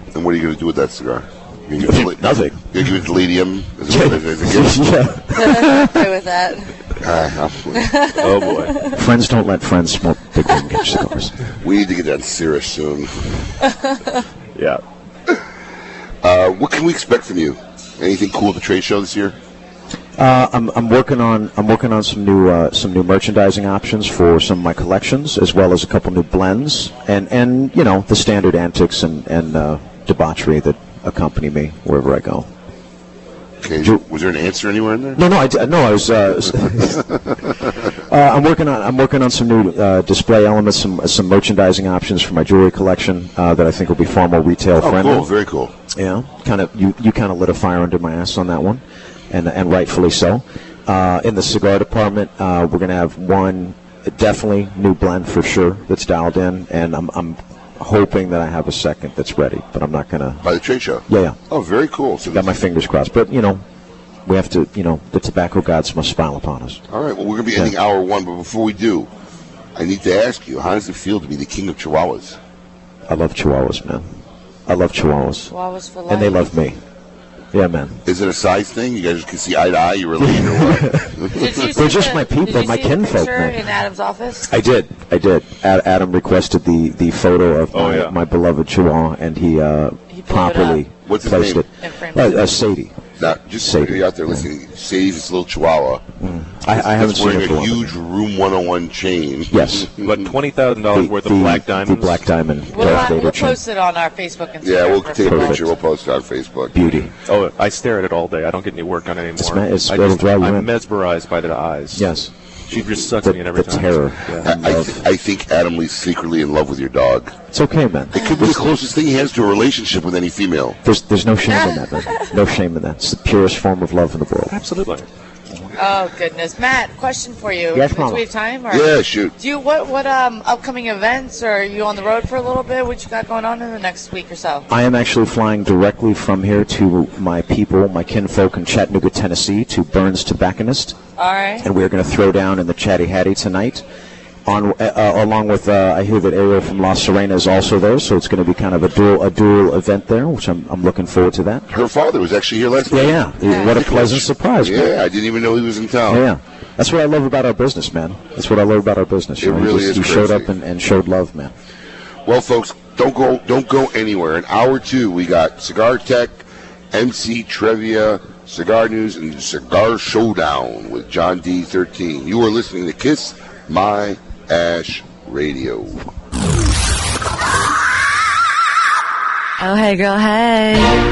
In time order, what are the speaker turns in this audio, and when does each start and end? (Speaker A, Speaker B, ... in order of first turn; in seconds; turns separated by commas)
Speaker A: 0.1-4.8, Speaker B: 1.8-2.6, Speaker B: 3.9-6.0, Speaker C: 5.4-6.8, Speaker A: 7.0-7.9, Speaker C: 7.8-8.9, Speaker D: 8.2-8.8, Speaker B: 8.9-11.3, Speaker A: 11.6-13.4, Speaker D: 14.6-14.8, Speaker A: 16.2-19.4, Speaker B: 20.2-32.5, Speaker A: 33.6-35.2, Speaker B: 35.2-37.0, Speaker B: 38.1-45.3, Speaker A: 44.8-45.7, Speaker B: 45.9-60.4, Speaker A: 60.4-62.6, Speaker B: 61.1-61.4, Speaker B: 62.3-63.6, Speaker B: 64.3-66.8, Speaker A: 66.9-69.1, Speaker A: 69.8-72.4, Speaker B: 73.1-74.1, Speaker B: 74.7-75.5, Speaker C: 75.5-76.5, Speaker B: 76.1-76.8, Speaker B: 77.5-78.0, Speaker A: 78.0-81.6, Speaker B: 80.2-81.1, Speaker C: 81.3-84.5, Speaker B: 81.8-83.6, Speaker B: 84.5-93.0, Speaker D: 87.7-88.2, Speaker C: 90.1-90.8, Speaker A: 91.0-91.7, Speaker C: 91.8-92.5, Speaker A: 93.2-96.0, Speaker B: 93.6-94.5, Speaker B: 96.2-97.9, Speaker A: 96.7-100.3, Speaker B: 99.5-99.9, Speaker D: 100.0-102.3, Speaker B: 100.9-103.6, Speaker C: 102.7-105.7, Speaker A: 104.6-106.9, Speaker B: 105.2-105.7, Speaker B: 106.7-107.1, Speaker D: 107.3-112.2, Speaker B: 109.4-110.7, Speaker B: 111.9-115.1, Speaker D: 112.7-114.5, Speaker A: 114.4-117.3, Speaker B: 117.5-118.7, Speaker A: 118.2-120.8, Speaker B: 120.8-124.5, Speaker C: 121.5-122.1, Speaker D: 124.5-125.1, Speaker C: 125.8-134.7, Speaker B: 127.7-128.2, Speaker A: 128.7-129.3, Speaker B: 134.7-141.0, Speaker C: 141.2-141.7, Speaker B: 141.6-143.8, Speaker B: 144.5-151.7, Speaker A: 151.7-156.2, Speaker B: 152.9-154.9, Speaker C: 153.4-153.7, Speaker B: 156.1-161.5, Speaker A: 159.4-160.5, Speaker A: 162.3-176.0, Speaker C: 179.6-181.0